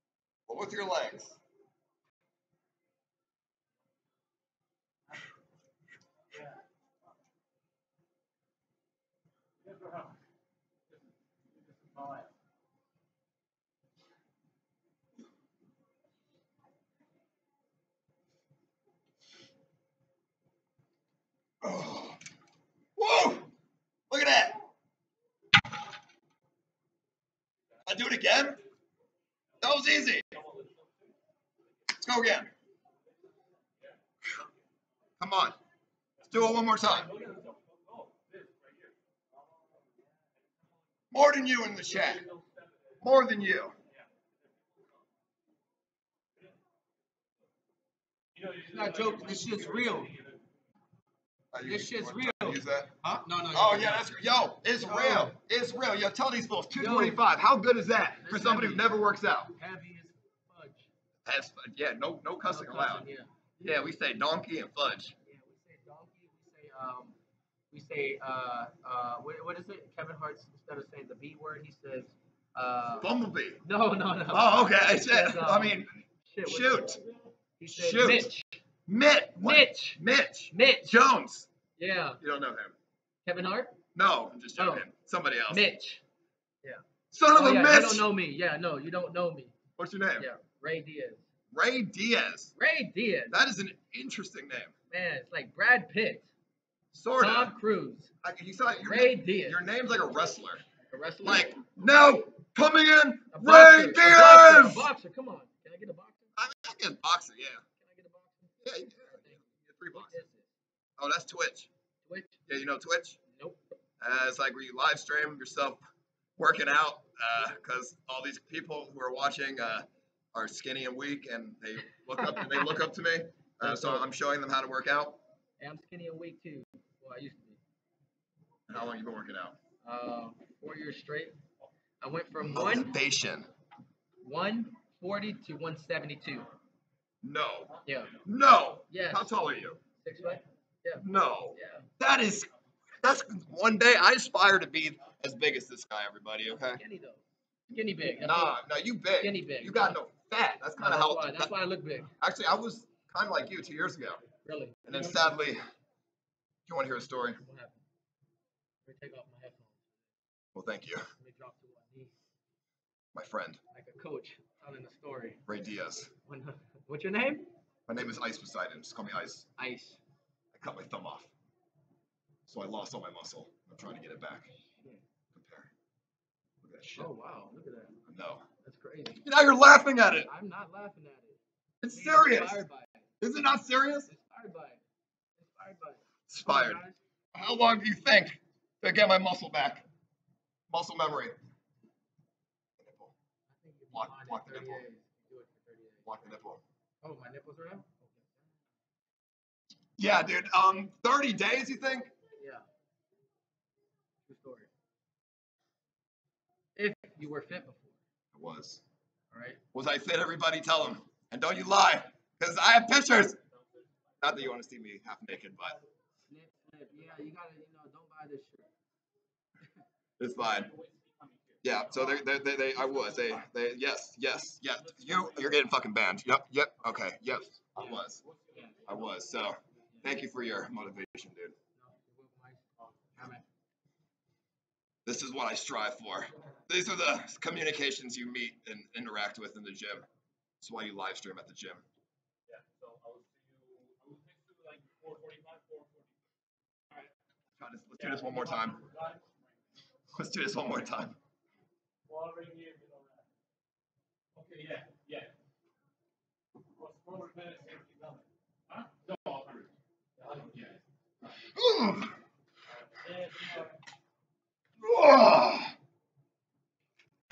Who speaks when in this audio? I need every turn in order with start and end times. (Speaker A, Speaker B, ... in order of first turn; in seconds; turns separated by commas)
Speaker A: 0.5-1.4, Speaker B: 9.6-10.2, Speaker B: 11.5-12.3, Speaker A: 21.6-22.2, Speaker A: 23.0-23.5, Speaker A: 24.1-24.6, Speaker A: 27.8-28.6, Speaker A: 29.6-30.3, Speaker B: 30.3-30.9, Speaker A: 31.9-32.5, Speaker B: 33.8-34.5, Speaker A: 35.2-35.6, Speaker A: 36.3-37.1, Speaker B: 36.8-40.0, Speaker A: 41.1-42.2, Speaker B: 41.9-42.9, Speaker A: 43.0-43.8, Speaker B: 48.3-50.5, Speaker C: 48.6-50.1, Speaker A: 51.5-52.9, Speaker C: 51.6-54.1, Speaker A: 53.5-59.5, Speaker C: 54.8-55.4, Speaker C: 56.8-57.2, Speaker C: 58.2-58.9, Speaker C: 59.5-60.9, Speaker A: 61.2-63.0, Speaker C: 62.5-63.4, Speaker A: 63.6-65.1, Speaker C: 65.2-67.2, Speaker C: 67.7-73.1, Speaker A: 73.0-73.6, Speaker C: 73.6-77.0, Speaker A: 74.3-77.0, Speaker C: 77.6-78.6, Speaker A: 77.7-78.3, Speaker A: 78.9-81.5, Speaker C: 79.4-80.0, Speaker C: 80.5-80.9, Speaker C: 81.8-82.2, Speaker A: 82.2-82.7, Speaker C: 83.2-83.8, Speaker A: 83.9-85.7, Speaker C: 84.5-84.9, Speaker C: 85.5-86.0, Speaker C: 86.6-89.6, Speaker A: 87.1-88.1, Speaker A: 89.8-90.3, Speaker C: 90.2-91.2, Speaker A: 91.5-92.5, Speaker C: 92.6-93.4, Speaker A: 93.3-94.7, Speaker C: 94.9-96.3, Speaker A: 96.9-97.5, Speaker C: 97.2-98.1, Speaker A: 98.2-100.6, Speaker C: 98.8-99.6, Speaker C: 100.9-101.6, Speaker A: 101.2-104.9, Speaker C: 103.3-106.3, Speaker A: 106.3-107.6, Speaker C: 107.8-109.4, Speaker A: 108.6-110.2, Speaker C: 109.9-110.5, Speaker A: 111.0-111.7, Speaker C: 112.0-112.4, Speaker A: 112.5-113.2, Speaker C: 113.3-113.6, Speaker A: 114.0-115.8, Speaker A: 116.4-125.2, Speaker C: 122.2-122.6, Speaker C: 123.6-124.0, Speaker C: 125.6-127.6, Speaker A: 128.7-129.6, Speaker C: 129.8-131.4, Speaker C: 132.0-133.0, Speaker A: 132.4-133.5, Speaker C: 134.2-136.5, Speaker A: 137.2-139.8, Speaker C: 137.8-138.2, Speaker C: 138.9-141.9, Speaker A: 141.0-142.5, Speaker A: 143.0-146.8, Speaker C: 146.5-150.0, Speaker A: 148.1-151.5, Speaker C: 150.8-152.1, Speaker A: 152.2-154.2, Speaker C: 154.4-155.1, Speaker A: 154.8-155.6, Speaker A: 156.7-157.4, Speaker C: 157.4-157.8, Speaker C: 158.8-159.9, Speaker A: 160.5-161.1, Speaker C: 161.2-162.1, Speaker A: 163.1-163.6, Speaker C: 163.7-165.4, Speaker A: 165.5-166.1, Speaker C: 166.2-167.5, Speaker A: 167.9-169.5, Speaker C: 169.6-170.0, Speaker A: 170.5-171.3, Speaker A: 172.5-174.5, Speaker C: 174.7-175.0, Speaker A: 175.3-175.7, Speaker A: 176.6-177.1, Speaker C: 176.9-178.0, Speaker A: 178.1-178.4, Speaker C: 178.6-179.2, Speaker A: 179.2-180.3, Speaker C: 180.2-183.1, Speaker A: 181.8-182.6, Speaker A: 183.2-184.1, Speaker C: 184.1-184.8, Speaker C: 185.4-187.0, Speaker A: 186.3-186.8, Speaker A: 187.3-189.8, Speaker A: 190.7-191.3, Speaker A: 192.8-193.1, Speaker C: 193.5-196.2, Speaker A: 193.9-194.8, Speaker A: 196.0-196.6, Speaker C: 197.0-198.5, Speaker A: 200.0-202.1, Speaker C: 202.3-202.7, Speaker C: 204.2-204.7, Speaker C: 206.7-208.0, Speaker A: 208.3-208.8, Speaker C: 209.3-209.6, Speaker A: 209.7-213.4, Speaker B: 213.4-213.9, Speaker A: 214.2-215.8, Speaker C: 216.3-218.7, Speaker A: 220.2-220.7, Speaker B: 220.4-221.8, Speaker A: 221.6-228.2, Speaker B: 225.0-225.5, Speaker B: 228.2-229.1, Speaker A: 228.8-231.5, Speaker C: 231.7-232.6, Speaker C: 233.2-233.4, Speaker A: 235.1-240.1, Speaker A: 240.6-241.8, Speaker B: 242.5-246.1, Speaker A: 247.6-248.9, Speaker B: 248.0-249.5, Speaker A: 250.1-251.2, Speaker B: 252.1-253.2, Speaker B: 254.3-255.3, Speaker B: 256.8-260.8, Speaker A: 261.4-262.1, Speaker B: 262.7-263.8, Speaker A: 264.8-265.7